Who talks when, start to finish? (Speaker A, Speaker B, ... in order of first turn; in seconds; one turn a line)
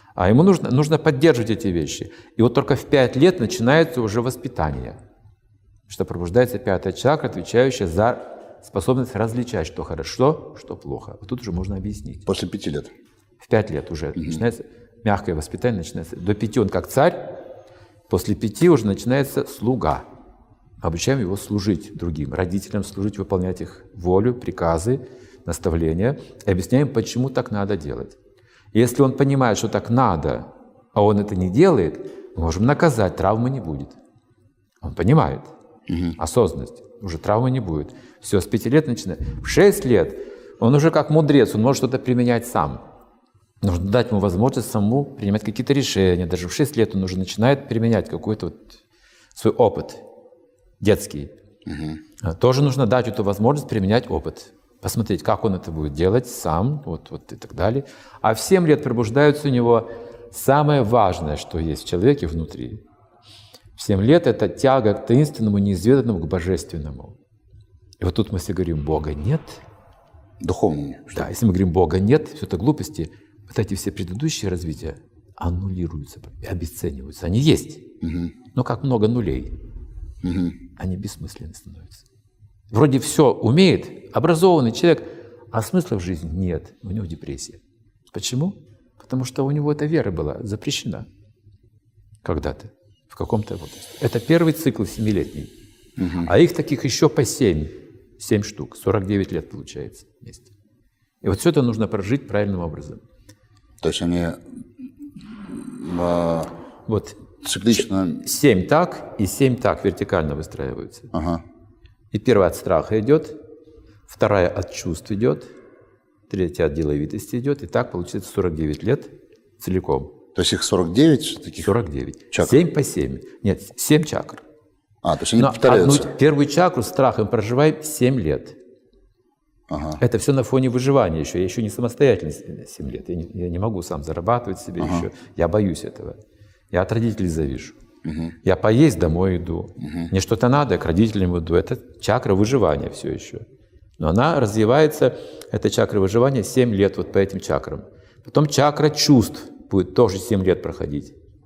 Speaker A: 0.2-5.0
Speaker A: 5.9-12.2
Speaker B: 12.3-12.9
Speaker A: 13.4-17.4
Speaker A: 18.1-20.1
Speaker A: 20.8-28.2
Speaker A: 28.7-34.0
Speaker A: 34.8-35.5
Speaker B: 35.9-36.2
Speaker A: 36.2-42.8
Speaker A: 43.6-48.8
Speaker A: 49.4-50.0
Speaker A: 50.8-51.3
Speaker B: 51.7-52.0
Speaker A: 52.2-62.8
Speaker A: 63.8-67.2
Speaker A: 68.0-69.6
Speaker B: 70.4-71.3
Speaker A: 71.1-77.9
Speaker B: 78.0-78.3
Speaker A: 78.5-79.6
Speaker B: 80.2-80.6
Speaker A: 80.8-82.0
Speaker A: 82.7-87.6
Speaker A: 88.1-91.1
Speaker A: 92.2-95.5
Speaker B: 96.0-96.3
Speaker A: 96.1-100.5
Speaker A: 101.2-103.0
Speaker B: 103.8-104.4
Speaker B: 105.4-106.5
Speaker A: 106.9-111.1
Speaker B: 107.4-108.2
Speaker B: 111.1-111.4
Speaker A: 112.1-113.4
Speaker A: 114.1-115.5
Speaker A: 116.3-120.2
Speaker B: 120.3-121.7
Speaker A: 121.6-124.4
Speaker B: 122.3-122.6
Speaker B: 125.0-126.1
Speaker A: 125.4-128.6
Speaker B: 129.7-130.0
Speaker A: 130.0-136.2
Speaker B: 134.8-135.1
Speaker A: 136.7-137.8
Speaker B: 138.1-138.3
Speaker A: 138.4-143.4
Speaker B: 139.8-140.1
Speaker A: 144.0-151.1